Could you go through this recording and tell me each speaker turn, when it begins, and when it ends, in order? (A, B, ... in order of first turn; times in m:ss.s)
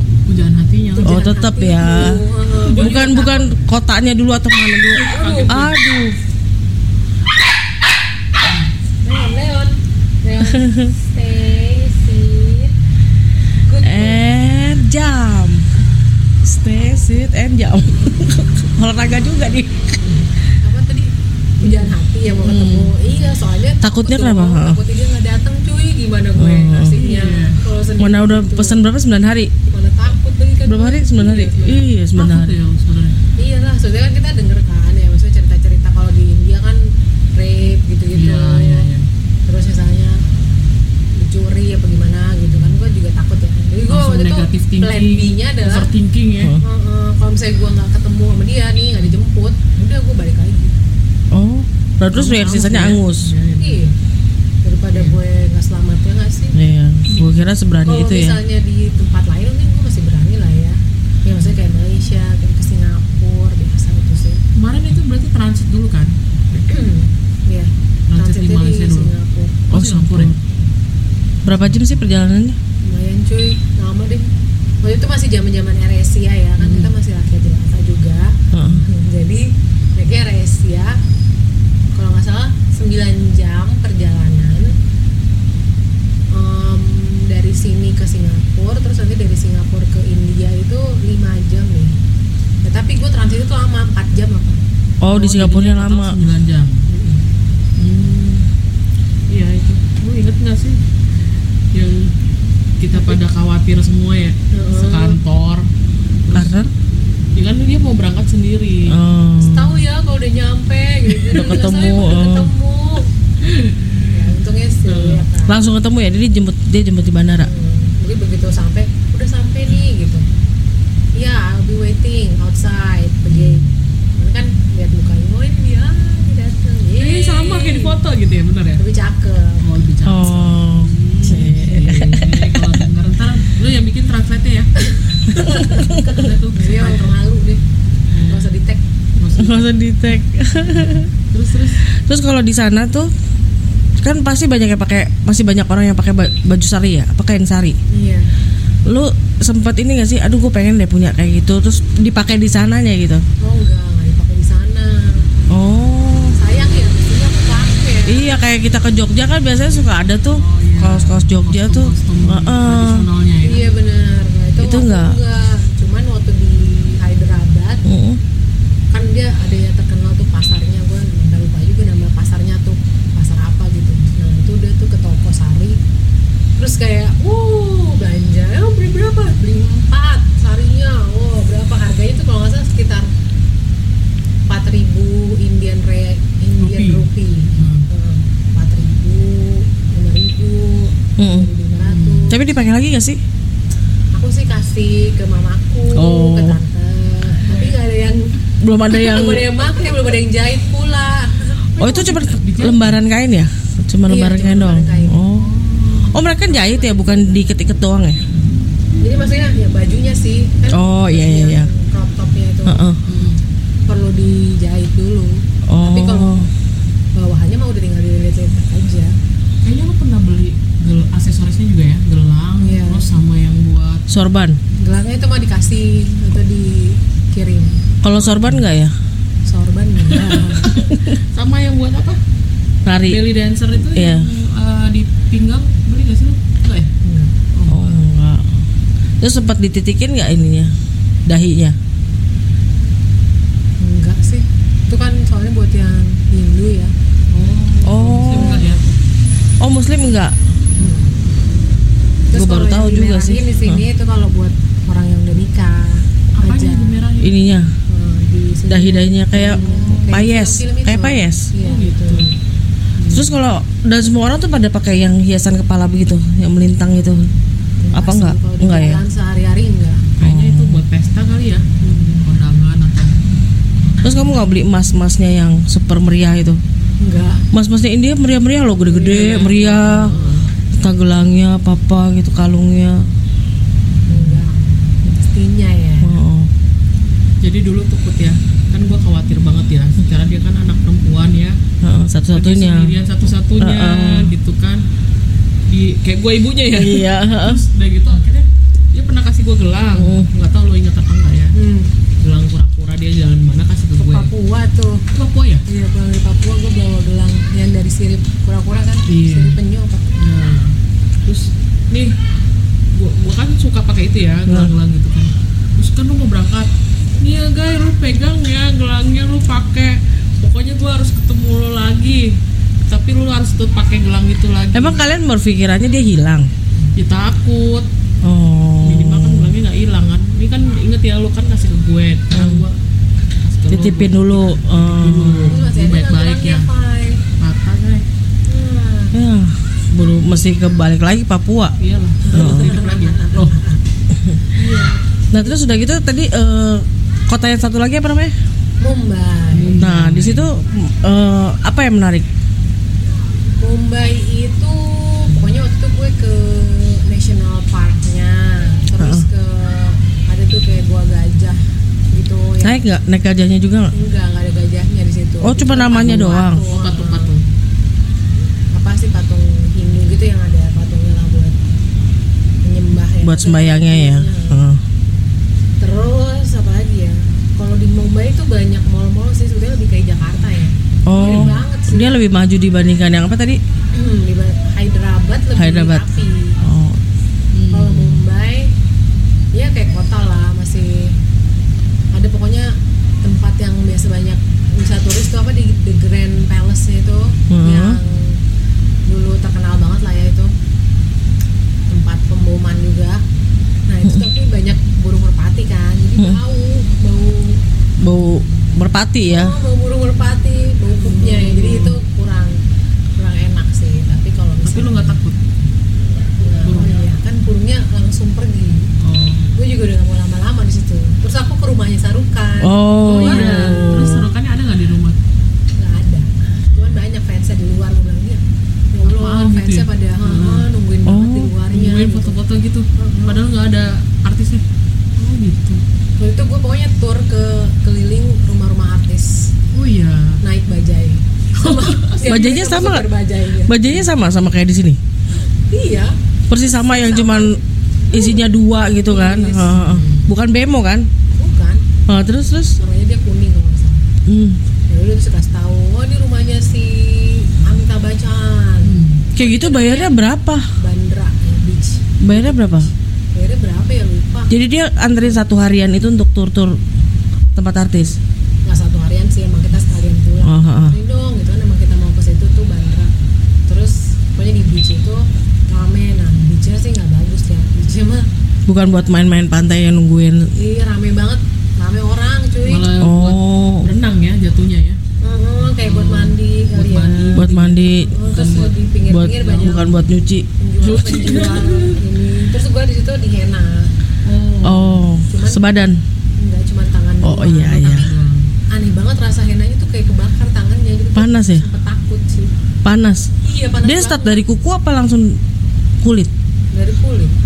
0:00.3-0:01.2 A
0:00.9-0:03.5 B
0:01.0-0:02.2 C
0:02.6-0:03.4 A
0:02.7-0:06.2 C
0:04.9-0:05.7 B
0:05.0-0:05.8 A
0:08.4-0:08.7 A
0:09.0-0:12.8 B
0:10.4-0:10.9 C
0:13.6-0:14.2 B
0:13.8-0:15.7 C
0:16.4-0:20.0 C
0:20.0-0:28.8 B
0:22.4-0:22.9 C
0:23.8-0:24.8 C
0:26.4-0:27.0 C
0:27.0-0:27.6 A
0:28.0-0:29.5 C
0:29.7-0:31.8 B
0:30.6-0:32.5 C
0:32.1-0:33.2 A
0:33.4-0:38.9 B
0:38.1-0:39.1 A
0:39.4-0:40.2 B
0:41.2-0:45.9 B
0:43.9-0:46.6 A
0:46.6-0:50.8 B
0:51.3-0:53.3 C
0:52.1-0:53.8 A
0:53.6-0:53.9 B
0:54.6-0:56.6 B
0:54.9-0:55.2 A
0:56.6-0:58.4 C
0:57.8-1:04.4 B
1:04.6-1:06.6 A
1:06.6-1:09.7 B
1:08.1-1:09.1 A
1:09.7-1:10.3 A
1:09.7-1:10.4 C
1:11.4-1:12.6 C
1:12.8-1:14.3 B
1:14.8-1:21.0 B
1:16.6-1:16.9 A
1:18.5-1:18.9 C
1:21.9-1:24.7 B
1:26.3-1:32.0 B
1:32.6-1:34.6 B
1:35.0-1:36.2 C
1:35.1-1:36.8 A
1:36.9-1:37.2 B
1:37.8-1:38.4 A
1:39.3-1:40.8 A
1:41.7-1:42.1 A
1:42.8-1:45.7 A
1:42.9-1:43.2 B
1:44.5-1:45.2 B
1:46.3-1:46.5 A
1:46.3-1:46.7 C
1:47.4-1:49.0 A
1:48.9-1:49.8 C
1:49.4-1:53.1 B
1:51.3-1:52.5 C
1:53.4-1:54.2 A
1:54.1-1:55.7 B
1:54.9-1:55.2 A
1:55.5-1:57.5 C
1:57.4-2:00.3 B
2:01.2-2:08.0 B
2:03.3-2:03.8 A
2:07.0-2:08.8 A
2:08.8-2:09.6 B
2:09.6-2:14.7 A
2:10.0-2:12.7 C
2:11.2-2:12.2 B
2:14.8-2:17.6 B
2:15.3-2:16.0 C
2:15.5-2:17.1 A
2:18.1-2:18.5 A
2:18.3-2:18.8 B
2:19.2-2:19.7 A
2:19.4-2:21.1 C
2:21.3-2:21.8 A
2:21.9-2:23.1 C
2:24.0-2:27.8 C
2:27.9-2:28.3 B
2:28.9-2:33.2 C
2:33.4-2:35.3 B
2:35.5-2:36.4 C
2:36.3-2:38.4 B
2:38.1-2:43.0 C
2:40.3-2:43.7 A
2:43.4-2:47.8 B
2:44.6-2:45.2 C
2:47.8-2:48.2 C
2:48.9-2:55.8 B
2:56.6-3:03.1 B
3:04.5-3:12.4 B
3:06.6-3:07.9 A
3:11.2-3:11.5 C
3:11.8-3:12.4 A
3:12.3-3:13.2 C
3:14.1-3:18.3 B
3:15.9-3:16.6 C
3:17.4-3:17.7 A
3:18.6-3:19.5 C
3:18.9-3:21.6 B
3:21.8-3:23.0 A
3:21.8-3:25.5 C
3:24.1-3:25.2 B
3:25.4-3:26.2 A
3:26.1-3:28.2 C
3:26.4-3:27.5 B
3:29.0-3:32.9 B
3:30.7-3:31.7 C
3:32.6-3:33.0 C
3:33.1-3:33.4 A
3:33.9-3:36.4 B
3:35.7-3:36.5 C
3:37.2-3:39.1 B
3:39.6-3:44.0 A
3:42.6-3:43.1 B
3:44.1-3:44.6 C
3:44.7-3:47.8 B
3:48.0-3:48.9 C
3:48.2-3:48.6 A
3:49.5-3:50.8 B
3:50.1-3:52.2 A
3:50.7-3:51.2 C
3:52.8-3:53.2 C
3:53.0-3:56.9 A
3:53.9-3:54.3 C
3:57.0-3:57.3 B
3:57.5-3:58.0 A
3:57.7-3:58.6 C
3:59.2-4:00.7 C
4:01.3-4:01.8 C
4:03.8-4:06.9 B
4:07.3-4:08.8 A
4:07.8-4:08.7 C
4:08.3-4:08.9 B
4:09.6-4:10.4 C
4:10.8-4:11.1 B
4:12.3-4:17.0 B
4:12.3-4:13.8 C
4:16.4-4:17.5 A
4:17.2-4:17.7 C
4:17.9-4:22.4 B
4:18.7-4:21.5 C
4:19.5-4:20.1 A
4:21.6-4:22.3 A
4:23.0-4:23.3 A
4:23.1-4:27.3 C
4:27.8-4:30.1 B
4:27.9-4:29.0 C
4:30.2-4:31.7 A
4:30.2-4:30.8 C
4:31.8-4:32.3 B
4:32.2-4:33.2 A
4:34.0-4:36.6 C
4:37.0-4:37.4 B
4:37.5-4:40.1 C
4:38.9-4:40.3 B
4:39.0-4:40.5 A
4:40.7-4:43.1 C
4:44.1-4:46.2 B
4:46.0-4:46.5 C
4:47.4-4:51.6 A
4:51.8-4:53.0 C
4:52.3-4:54.8 A
4:53.6-4:54.4 C
4:55.7-5:01.6 A
4:56.7-4:57.6 C
4:59.9-5:00.3 C
5:01.6-5:01.9 B
5:02.2-5:04.3 A
5:04.0-5:05.0 B
5:05.1-5:05.6 A
5:05.7-5:10.1 B
5:09.1-5:09.6 A
5:10.1-5:12.1 A
5:12.9-5:22.4 A
5:14.5-5:14.7 C
5:22.9-5:25.0 A
5:24.7-5:26.5 C
5:26.9-5:27.9 A
5:28.2-5:29.6 C
5:28.8-5:32.8 A
5:32.3-5:32.6 C
5:33.4-5:36.7 A
5:33.7-5:35.6 C
5:35.4-5:37.2 B
5:37.4-5:38.0 A
5:38.5-5:39.2 B
5:39.1-5:41.8 C
5:41.8-5:43.6 A
5:42.3-5:43.8 B
5:42.3-5:42.8 C
5:44.6-5:45.6 B
5:44.6-5:44.9 A
5:45.3-5:48.3 C
5:48.8-5:49.9 B
5:49.5-5:50.5 A
5:49.8-5:52.3 C
5:53.6-6:01.6 B
5:59.0-5:59.3 C
6:02.1-6:02.8 B
6:02.6-6:03.9 C
6:03.9-6:07.3 B
6:05.4-6:06.6 C
6:06.6-6:07.4 A
6:08.7-6:11.6 B
6:12.6-6:14.7 B
6:13.2-6:14.8 C
6:15.8-6:22.1 B
6:21.1-6:23.6 C
6:21.1-6:21.6 A
6:23.9-6:26.6 B
6:25.6-6:27.0 C
6:27.5-6:28.2 A
6:27.7-6:28.7 B
6:29.5-6:31.1 B
6:32.1-6:38.4 B
6:37.5-6:38.0 C
6:39.1-6:40.5 B
6:41.9-6:43.2 B
6:43.9-6:47.6 B
6:48.0-6:49.5 C
6:49.3-6:52.6 B
6:51.0-6:52.0 A
6:53.2-6:55.2 B
6:54.6-6:55.4 A
6:56.4-6:58.9 B
6:56.6-6:56.9 A
6:59.0-6:59.5 A
6:59.6-7:04.1 B
7:02.6-7:04.3 C
7:03.0-7:05.2 A
7:05.8-7:08.4 B
7:08.9-7:12.4 B
7:09.0-7:10.7 A
7:11.1-7:11.5 C
7:11.7-7:14.6 A
7:13.0-7:13.4 B
7:15.2-7:15.8 A
7:16.2-7:19.5 B
7:19.7-7:20.4 A
7:20.4-7:24.1 B
7:21.6-7:22.2 A
7:22.2-7:23.1 C
7:23.6-7:25.0 C
7:25.4-7:28.4 B
7:26.5-7:27.6 C
7:28.1-7:31.1 C
7:29.1-7:29.9 B
7:29.7-7:30.3 A
7:31.3-7:31.9 B
7:32.1-7:32.8 C
7:32.8-7:34.0 B
7:34.3-7:34.6 C
7:34.9-7:40.2 B
7:38.8-7:39.3 A
7:39.4-7:40.7 C
7:40.8-7:44.5 B
7:42.2-7:42.9 C
7:44.5-7:46.8 C
7:47.6-7:48.2 C
7:48.6-7:53.1 B
7:50.4-7:51.0 C
7:53.7-7:58.3 B
7:58.7-8:00.5 C
8:00.6-8:02.9 B
8:02.6-8:05.0 A
8:03.0-8:03.9 C
8:05.2-8:10.0 B
8:05.7-8:08.8 A
8:07.4-8:08.4 C
8:09.1-8:10.5 C
8:09.3-8:09.9 A
8:10.6-8:15.8 B
8:10.8-8:12.0 A
8:14.6-8:16.0 C
8:16.4-8:18.1 B
8:17.2-8:18.1 C
8:17.8-8:18.5 A
8:18.7-8:22.5 B
8:21.1-8:21.6 C
8:22.8-8:25.4 C
8:23.4-8:24.4 B
8:26.0-8:26.3 C
8:26.7-8:27.3 B